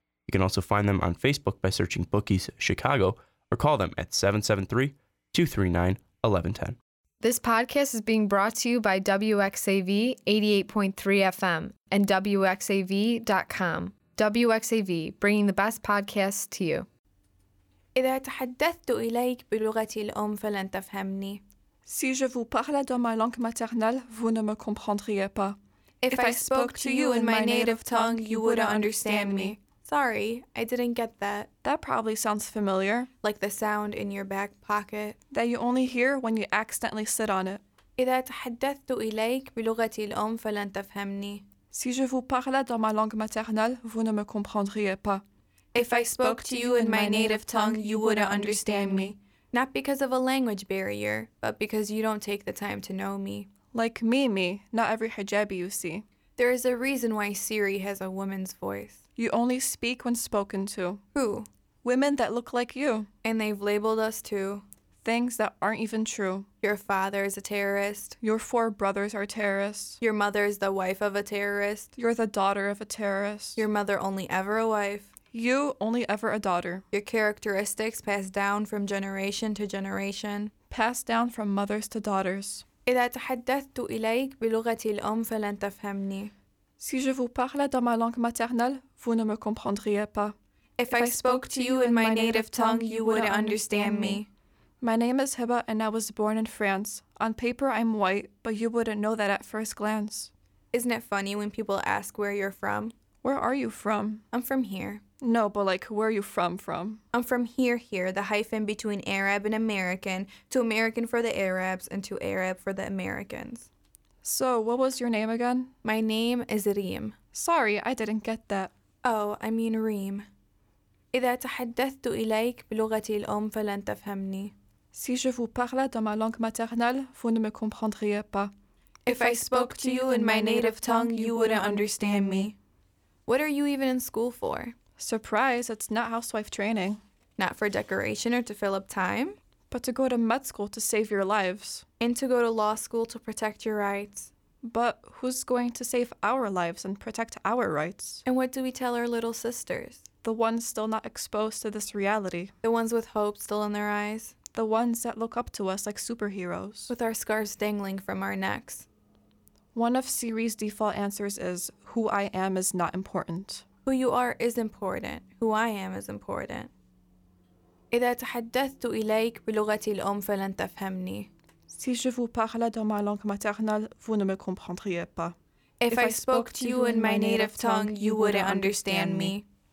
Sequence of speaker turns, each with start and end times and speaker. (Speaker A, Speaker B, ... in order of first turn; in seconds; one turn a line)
Speaker A: 0.3-6.8
Speaker B: 7.2-16.9
Speaker C: 17.9-21.4
Speaker D: 21.9-25.6
Speaker C: 26.0-31.5
Speaker D: 26.1-29.5
Speaker D: 31.6-33.1
Speaker C: 33.2-35.2
Speaker D: 35.3-37.6
Speaker C: 38.0-41.5
Speaker D: 41.7-45.2
Speaker C: 45.7-53.5
Speaker D: 45.8-49.1
Speaker D: 53.7-56.0
Speaker C: 56.4-59.0
Speaker D: 59.2-61.0
Speaker C: 61.1-61.5
Speaker D: 61.8-63.1
Speaker C: 63.2-64.7
Speaker D: 65.0-66.5
Speaker C: 66.6-68.2
Speaker D: 68.2-70.0
Speaker C: 70.0-71.9
Speaker D: 72.0-73.6
Speaker C: 73.6-75.1
Speaker D: 75.3-76.8
Speaker C: 76.9-80.5
Speaker D: 80.7-82.6
Speaker C: 82.9-86.3
Speaker D: 86.8-90.3
Speaker C: 90.8-94.3
Speaker D: 90.9-94.2
Speaker D: 94.8-100.3
Speaker C: 100.7-102.9
Speaker D: 103.2-104.2
Speaker C: 104.3-105.0
Speaker D: 105.2-107.0
Speaker C: 107.1-113.7
Speaker D: 114.2-115.7
Speaker C: 115.8-117.2
Speaker D: 117.3-118.7
Speaker C: 119.0-120.3
Speaker C: 121.1-124.5
Speaker D: 124.9-128.5
Speaker C: 129.1-132.6
Speaker D: 129.1-132.5
Speaker C: 133.3-134.8
Speaker D: 135.0-137.0
Speaker C: 137.4-139.4
Speaker D: 139.7-141.8
Speaker C: 142.0-144.3
Speaker D: 144.6-148.2
Speaker C: 148.3-150.0
Speaker D: 150.2-152.5
Speaker C: 152.6-154.3
Speaker D: 154.5-156.9
Speaker C: 156.9-158.9
Speaker D: 159.8-163.6
Speaker C: 163.8-166.7
Speaker C: 167.9-171.3
Speaker D: 171.7-175.3
Speaker C: 175.8-179.4
Speaker D: 175.9-179.3